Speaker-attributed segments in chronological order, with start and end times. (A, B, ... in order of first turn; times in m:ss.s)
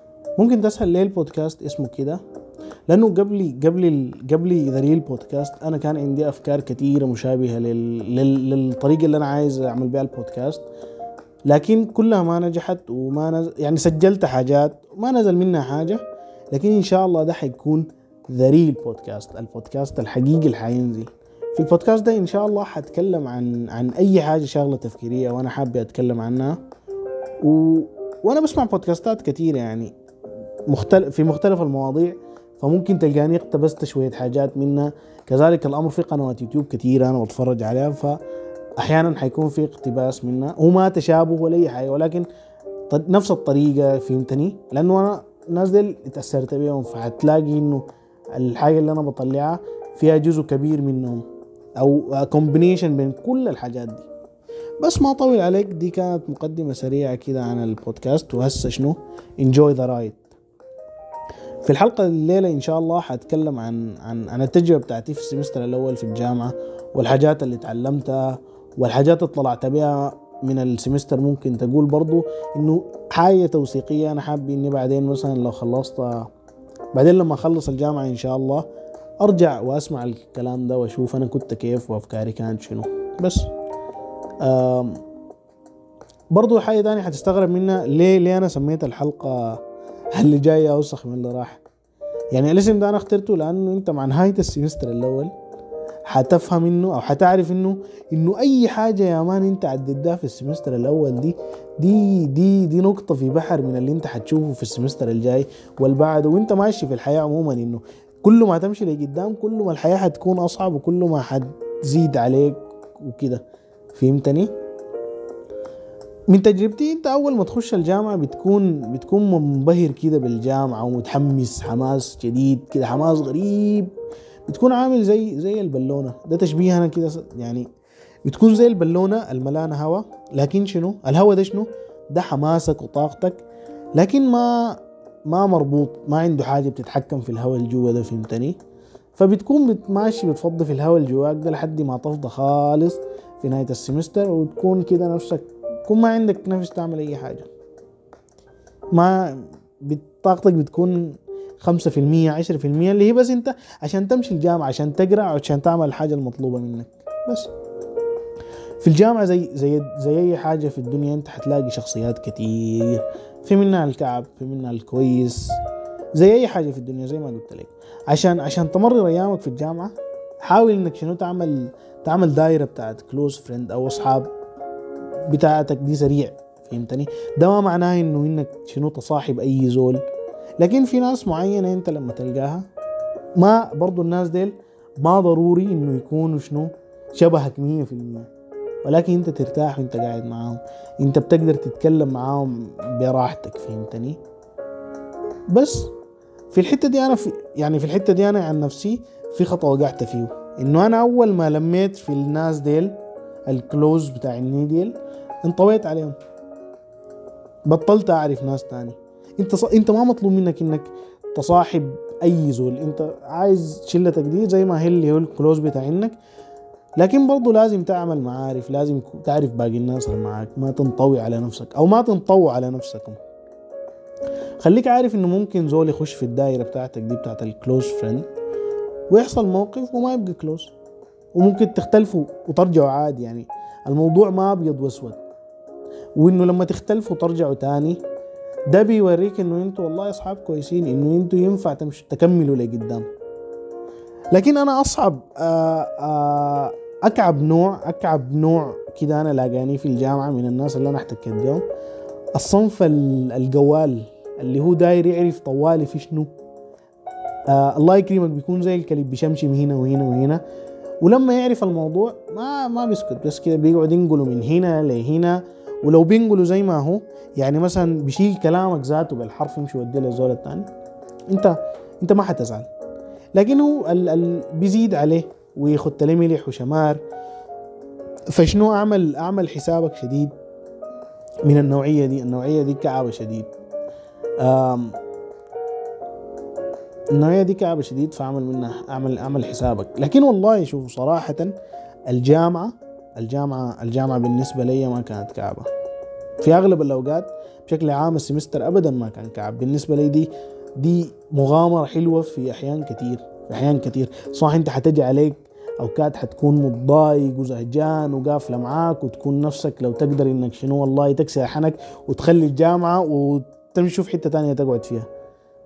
0:00.4-0:02.2 A
0:02.9-0:10.6 A
0:11.4-0:26.6 A
0:27.4-0:29.9 A
0:30.7-0:38.2 A
0:38.8-0:42.3 A
0:42.9-0:51.2 A
0:51.8-0:54.1 A
0:54.8-1:00.3 A
1:01.6-1:16.3 A
1:16.9-1:18.6 A
1:19.2-1:23.5 A
1:24.4-1:25.0 A
1:26.3-1:29.6 A
1:30.1-1:31.6 A
1:32.3-1:35.3 A
1:36.1-1:53.4 A
1:53.9-1:54.5 A
1:56.3-2:03.9 A
2:04.5-2:07.7 A
2:08.2-2:13.4 A
2:14.0-2:18.6 A
2:19.2-2:27.5 A
2:28.9-2:37.5 A
2:38.8-2:45.6 A
2:46.2-2:49.9 A
2:50.4-2:54.3 A
2:55.3-3:00.0 A
3:00.6-3:02.6 A
3:03.4-3:08.3 A
3:08.8-3:14.2 A
3:15.5-3:15.9 A
3:16.5-3:26.2 A
3:27.7-3:36.2 A
3:37.0-3:43.2 A
3:44.6-3:48.3 A
3:49.1-3:50.7 A
3:51.4-3:55.2 A
3:56.2-3:58.0 A
3:58.7-4:03.0 A
4:04.3-4:11.6 A
4:12.3-4:16.3 A
4:17.5-4:20.4 A
4:21.0-4:30.7 A
4:31.3-4:32.7 A
4:33.3-4:37.0 A
4:38.3-4:40.3 A
4:41.4-4:43.5 A
4:44.4-4:45.0 A
4:47.1-4:51.5 A
4:52.1-4:55.7 A
4:56.4-5:15.1 A